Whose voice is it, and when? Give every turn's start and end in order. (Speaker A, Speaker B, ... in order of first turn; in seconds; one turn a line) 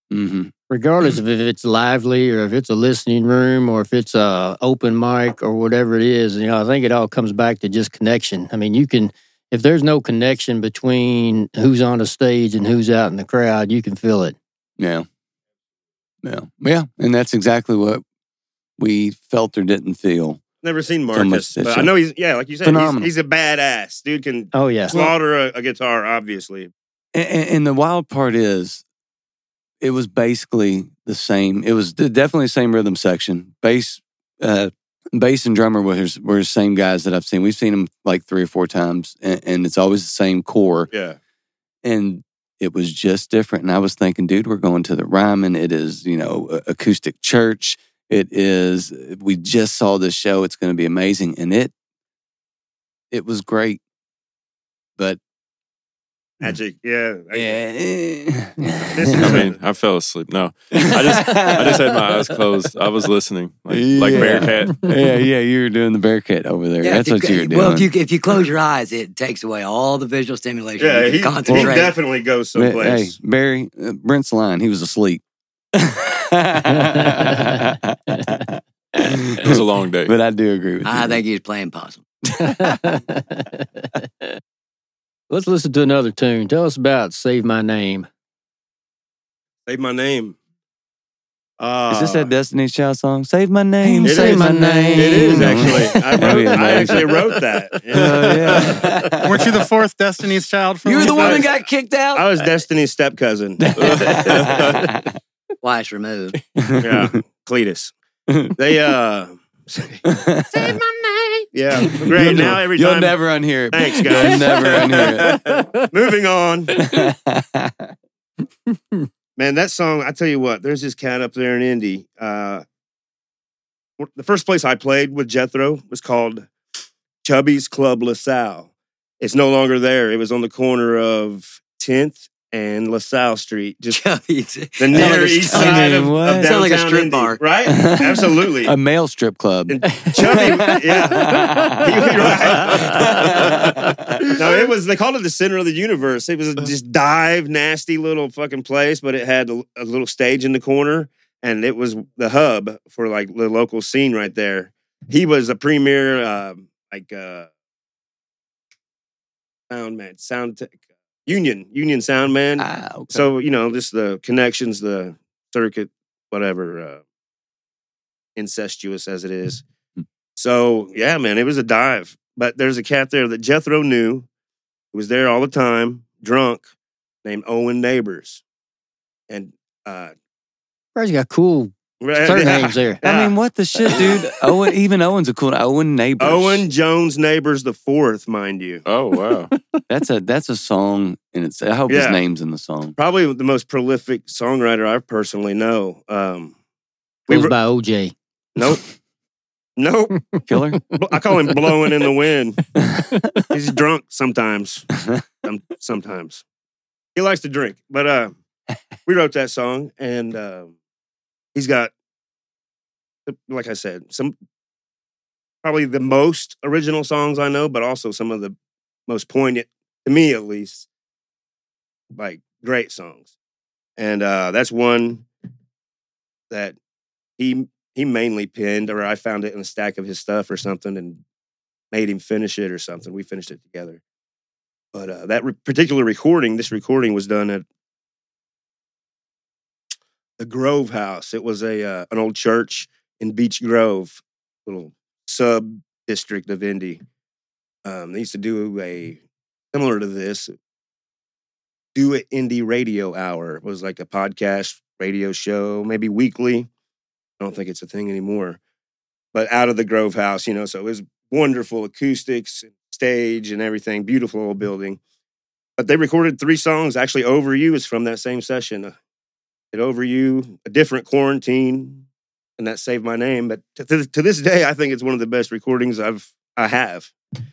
Speaker A: 0.1-0.5
Speaker B: 0.7-14.4
Speaker A: 14.8-15.1
Speaker A: 16.2-18.0
Speaker A: 18.8-20.4
Speaker C: 20.6-26.7
Speaker A: 21.1-21.9
Speaker A: 22.6-23.1
Speaker B: 24.5-25.0
Speaker A: 27.1-28.8
Speaker A: 29.8-40.9
Speaker C: 40.9-41.2
Speaker A: 41.8-51.7
Speaker A: 53.1-53.8
Speaker C: 56.4-57.6
Speaker A: 57.3-59.5
Speaker C: 58.9-59.6
Speaker D: 59.1-64.9
Speaker A: 60.8-62.4
Speaker A: 63.7-67.9
Speaker E: 66.8-72.0
Speaker C: 70.8-73.2
Speaker A: 71.5-71.8
Speaker A: 72.5-75.2
Speaker A: 75.7-81.2
Speaker B: 76.7-77.7
Speaker D: 79.4-80.2
Speaker E: 80.8-82.0
Speaker B: 82.4-84.4
Speaker A: 82.5-82.8
Speaker B: 85.3-88.1
Speaker C: 89.7-90.4
Speaker C: 91.6-92.3
Speaker A: 91.9-97.3
Speaker B: 93.8-96.0
Speaker C: 94.0-99.0
Speaker A: 97.9-99.7
Speaker F: 99.2-101.5
Speaker A: 100.8-102.5
Speaker C: 101.0-101.6
Speaker C: 102.1-104.9
Speaker A: 103.6-105.2
Speaker E: 105.6-106.4
Speaker A: 106.6-107.2
Speaker C: 106.8-107.9
Speaker A: 108.3-108.5
Speaker C: 108.6-110.0
Speaker A: 110.1-110.8
Speaker C: 111.5-116.8
Speaker A: 111.9-115.5
Speaker B: 115.4-115.7
Speaker A: 116.8-117.9
Speaker C: 119.4-122.6
Speaker C: 124.0-126.5
Speaker C: 127.2-134.0
Speaker E: 133.9-137.4
Speaker C: 134.8-138.8
Speaker A: 134.9-136.6
Speaker A: 137.7-144.4
Speaker C: 139.7-143.7
Speaker B: 141.3-141.7
Speaker C: 144.2-157.5
Speaker C: 159.7-167.0
Speaker A: 162.6-163.3
Speaker C: 168.4-169.6
Speaker C: 170.4-174.3
Speaker C: 174.9-176.7
Speaker C: 177.2-178.4
Speaker C: 179.3-180.1
Speaker B: 181.0-183.0
Speaker C: 182.0-184.2
Speaker A: 183.0-186.7
Speaker C: 186.2-188.8
Speaker D: 188.8-189.5
Speaker A: 189.9-192.9
Speaker C: 191.9-192.2
Speaker C: 193.0-196.6
Speaker C: 197.3-197.5
Speaker B: 197.3-198.1
Speaker C: 198.6-198.8
Speaker C: 199.8-200.3
Speaker A: 200.5-200.8
Speaker C: 200.9-202.7
Speaker C: 203.5-204.9
Speaker C: 205.4-206.4
Speaker C: 207.2-208.3
Speaker C: 209.1-210.7
Speaker C: 211.6-211.9
Speaker C: 213.3-214.3
Speaker C: 215.6-218.6
Speaker C: 219.1-220.9
Speaker C: 222.1-223.3
Speaker C: 224.0-225.3
Speaker C: 226.5-226.8
Speaker C: 227.4-231.2
Speaker C: 231.9-234.0
Speaker C: 234.9-237.7
Speaker C: 240.4-247.0
Speaker C: 247.8-249.2
Speaker C: 249.7-250.5
Speaker C: 251.9-256.7
Speaker C: 257.4-258.6
Speaker C: 259.3-265.0
Speaker C: 265.8-268.9
Speaker C: 269.7-272.0
Speaker C: 272.6-277.1